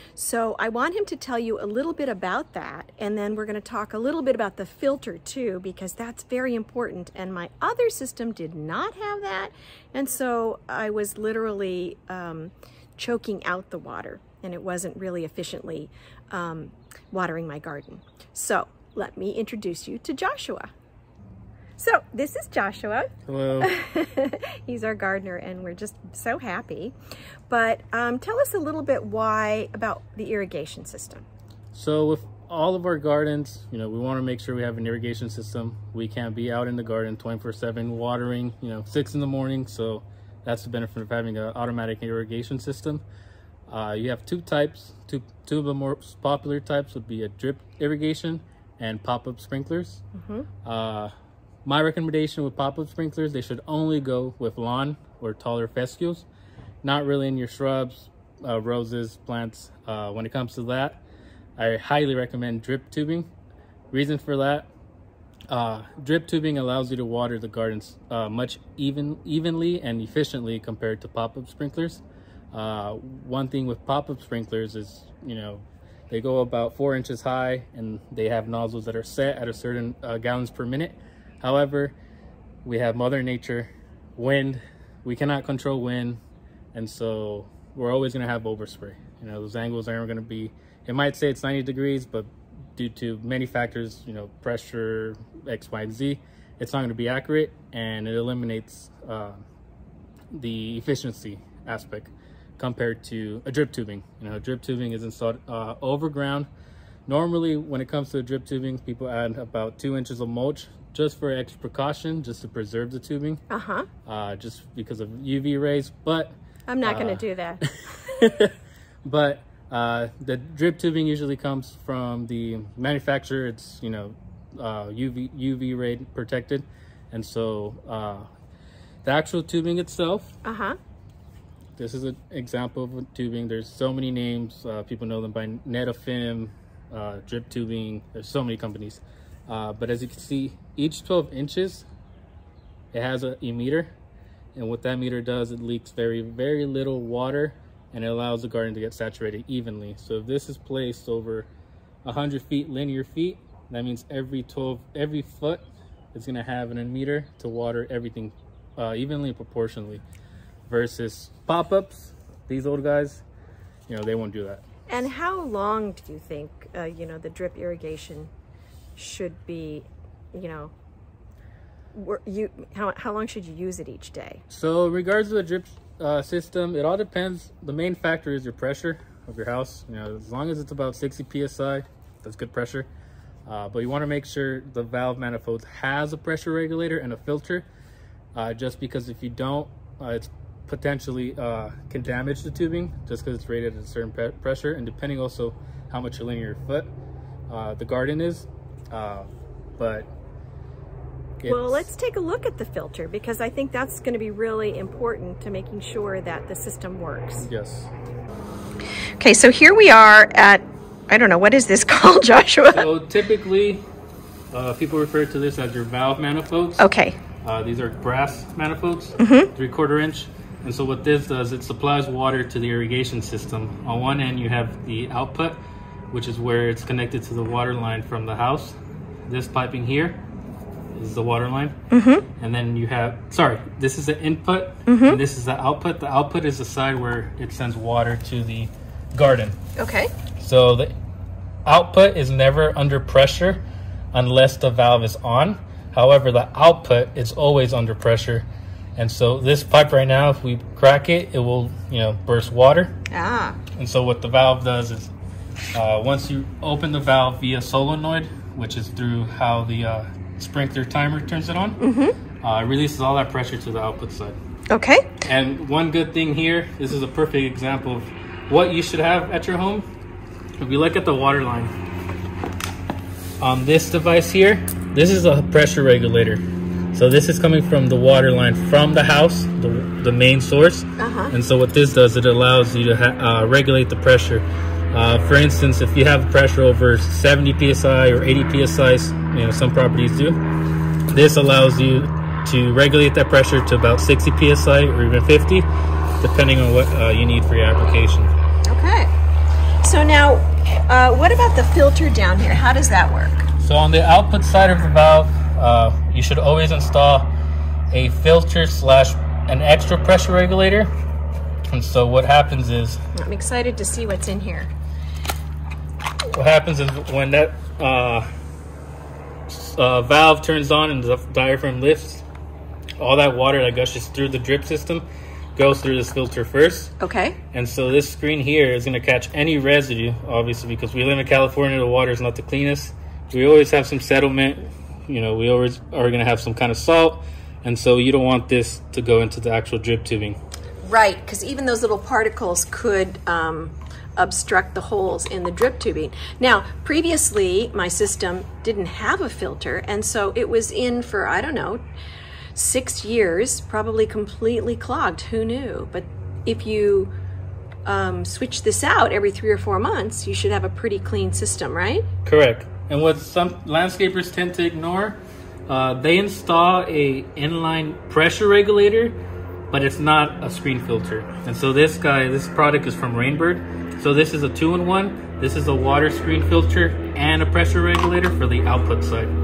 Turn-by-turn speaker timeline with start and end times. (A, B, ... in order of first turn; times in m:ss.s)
0:00.2-0:20.7 A
0:21.8-0:26.9 A
0:23.2-0:23.7 B
0:27.5-0:31.2 A
0:31.7-0:43.0 B
0:43.7-0:50.0 B
0:50.1-0:50.5 A
0:50.6-0:51.1 B
0:51.6-0:56.2 B
0:56.8-1:01.0 B
1:01.6-1:03.3 B
1:03.9-1:04.7 B
1:05.5-1:22.0 B
1:22.6-1:26.2 B
1:26.7-1:39.4 B
1:40.3-1:46.5 B
1:47.1-1:53.4 B
1:53.5-1:53.9 A
1:54.0-2:08.2 B
1:56.7-1:58.3 A
2:09.0-2:10.3 B
2:10.4-2:10.8 A
2:11.8-2:21.8 B
2:22.9-2:23.9 B
2:24.5-2:31.5 B
2:32.0-2:40.0 B
2:40.7-2:43.2 B
2:43.9-2:44.6 B
2:44.9-2:48.3 A
2:49.0-2:50.7 A
2:51.9-2:54.4 A
2:54.5-3:02.9 B
3:03.4-3:07.7 B
3:08.3-3:16.9 B
3:17.5-3:20.1 B
3:21.4-3:21.9 B
3:21.4-3:27.5 A
3:27.4-3:27.9 B
3:29.2-3:32.9 A
3:32.7-3:33.8 B
3:34.5-3:36.9 B
3:36.8-3:37.2 A
3:37.4-3:50.2 B
3:39.2-3:39.5 A
3:50.9-3:51.7 B
3:51.9-3:52.2 A
3:52.4-3:59.6 B
3:54.9-3:55.2 A
3:59.8-4:00.1 A
4:00.4-4:00.9 B
4:01.6-4:03.6 B
4:04.1-4:12.9 B
4:13.1-4:13.6 A
4:13.8-4:15.1 B
4:15.7-4:21.8 B
4:21.8-4:22.2 A
4:22.4-4:24.4 B
4:24.7-4:25.2 A
4:25.2-4:29.8 B
4:30.6-4:31.7 B
4:33.4-4:36.4 B
4:36.9-4:50.4 B
4:41.0-4:41.3 A
4:51.1-4:55.7 B
4:56.2-4:58.3 B
4:58.6-4:59.1 A
4:59.8-5:03.5 A
5:03.6-5:07.3 B
5:07.9-5:10.9 B
5:11.7-5:13.0 B
5:13.1-5:14.7 A
5:16.3-5:18.3 B
5:19.5-5:22.2 B
5:23.0-5:26.9 B
5:27.0-5:27.4 A
5:27.5-5:40.4 B
5:40.8-5:51.8 A
5:52.5-5:57.1 A
5:57.8-6:02.0 A
6:02.2-6:09.2 B
6:09.7-6:19.3 B